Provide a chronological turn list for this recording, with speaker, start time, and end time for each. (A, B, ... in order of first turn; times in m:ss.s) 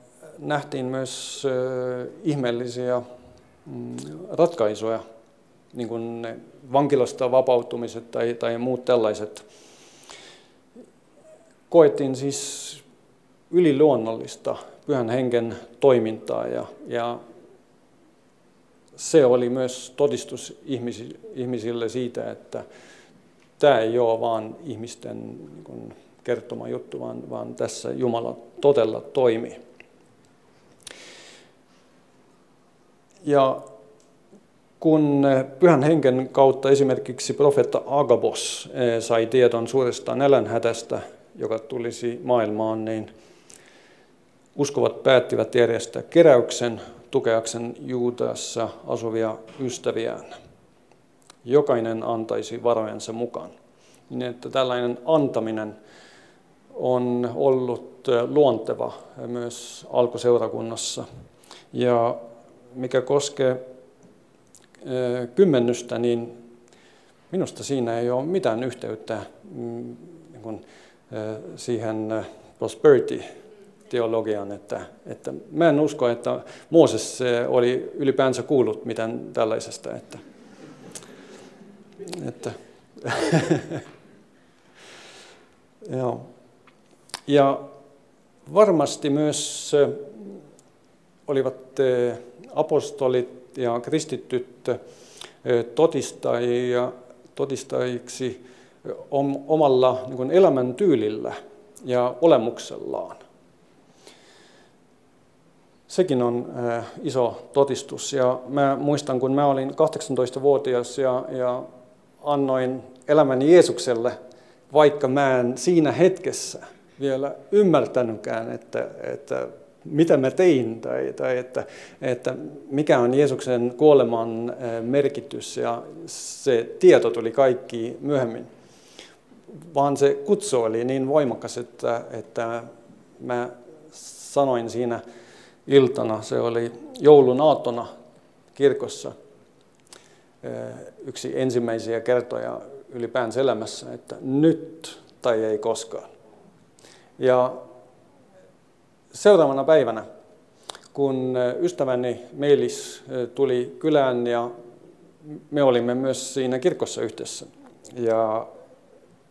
0:00.4-0:03.0 A
0:03.6-0:05.0 A
0:05.7-0:09.4 A
0:11.7-0:12.8 A
0:13.5-0:17.2 A
0:18.9-0:22.6 A
0:23.6-0:29.6 A
0:33.2-0:33.6 A
0:34.8-0:43.1 A
0:44.6-0:50.3 A
0:51.4-0:53.5 A
0:54.1-0:55.7 A
0:56.7-1:01.0 A
1:01.7-1:02.2 A
1:02.7-1:03.6 A
1:04.8-1:06.3 A
1:07.3-1:13.2 A
1:13.9-1:20.2 A
1:22.1-1:23.8 A
1:25.8-1:26.3 A
1:27.3-1:27.6 A
1:28.4-1:30.3 A
1:31.3-1:34.8 A
1:35.4-1:43.2 A
1:45.9-1:51.7 A
1:52.2-1:54.2 A
1:54.7-2:08.5 A
2:09.7-2:15.0 A
2:15.6-2:17.9 A
2:18.5-2:19.1 A
2:20.4-2:26.1 A
2:27.2-2:27.6 A
2:29.1-2:30.0 A
2:30.9-2:34.5 A
2:35.5-2:38.5 A